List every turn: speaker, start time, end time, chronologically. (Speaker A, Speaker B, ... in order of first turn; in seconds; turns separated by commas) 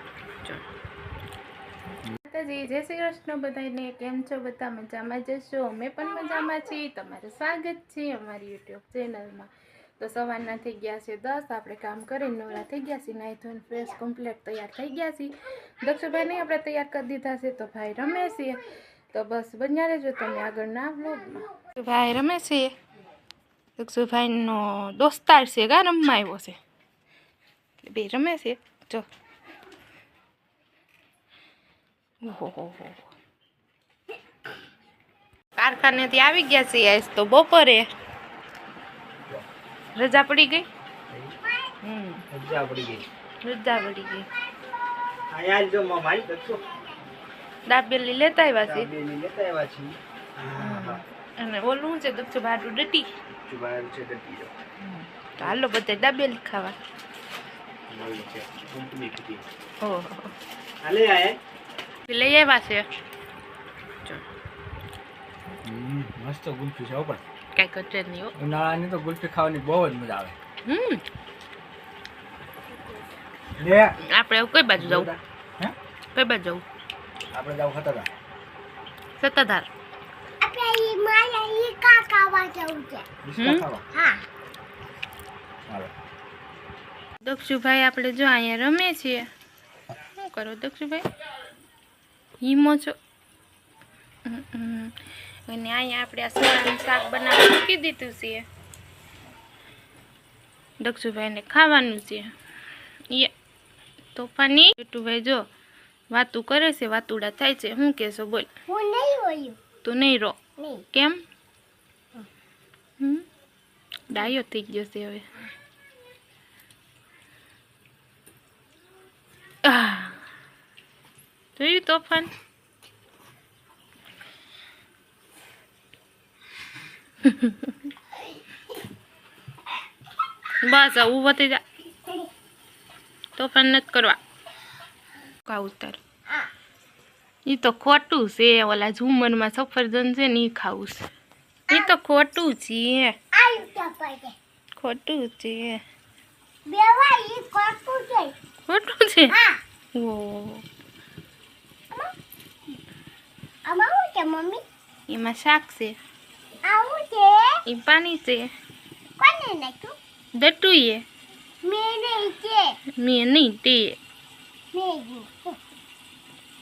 Speaker A: 2.3-22.7, Speaker A: 23.8-26.6, Speaker A: 27.8-29.1, Speaker A: 32.2-33.0, Speaker A: 35.6-37.9, Speaker A: 40.0-40.6, Speaker A: 41.8-42.2, Speaker B: 42.3-43.0, Speaker A: 43.4-44.2, Speaker B: 45.3-46.6, Speaker A: 47.7-48.9, Speaker B: 48.6-51.0, Speaker A: 50.5-53.1, Speaker B: 53.5-54.5, Speaker A: 54.8-56.8, Speaker B: 57.9-59.4, Speaker A: 59.8-60.3, Speaker B: 60.8-61.4, Speaker A: 62.1-62.9, Speaker C: 65.6-67.2, Speaker A: 67.5-68.3, Speaker C: 68.4-70.3, Speaker A: 70.7-71.0, Speaker C: 73.6-73.9, Speaker A: 74.0-75.1, Speaker C: 74.8-75.7, Speaker A: 76.1-76.6, Speaker C: 77.3-78.1, Speaker A: 79.2-79.7, Speaker D: 80.4-83.0, Speaker C: 83.2-83.8, Speaker A: 83.4-83.7, Speaker D: 83.9-84.2, Speaker A: 87.2-89.3, Speaker A: 90.1-91.0, Speaker A: 92.4-92.9, Speaker A: 94.2-94.9, Speaker A: 95.5-98.4, Speaker A: 100.8-102.3, Speaker A: 104.1-105.4, Speaker A: 106.1-108.5, Speaker D: 108.7-109.6, Speaker A: 109.8-110.4, Speaker D: 110.6-110.8, Speaker A: 110.9-111.2, Speaker A: 114.1-115.3, Speaker A: 119.6-120.2, Speaker A: 121.5-122.3, Speaker A: 127.2-127.7, Speaker A: 130.6-131.6, Speaker A: 133.4-134.2, Speaker A: 135.4-136.0, Speaker A: 137.4-141.1, Speaker A: 141.7-143.1, Speaker D: 143.3-144.3, Speaker A: 144.8-145.8, Speaker D: 146.7-148.3, Speaker A: 148.7-149.3, Speaker D: 149.3-149.6, Speaker A: 149.9-150.6, Speaker D: 153.6-154.6, Speaker A: 155.1-155.9, Speaker D: 156.7-157.5, Speaker A: 157.7-158.5, Speaker D: 159.2-159.9, Speaker A: 160.4-161.0, Speaker D: 161.6-162.7, Speaker A: 163.0-164.0, Speaker D: 164.7-165.6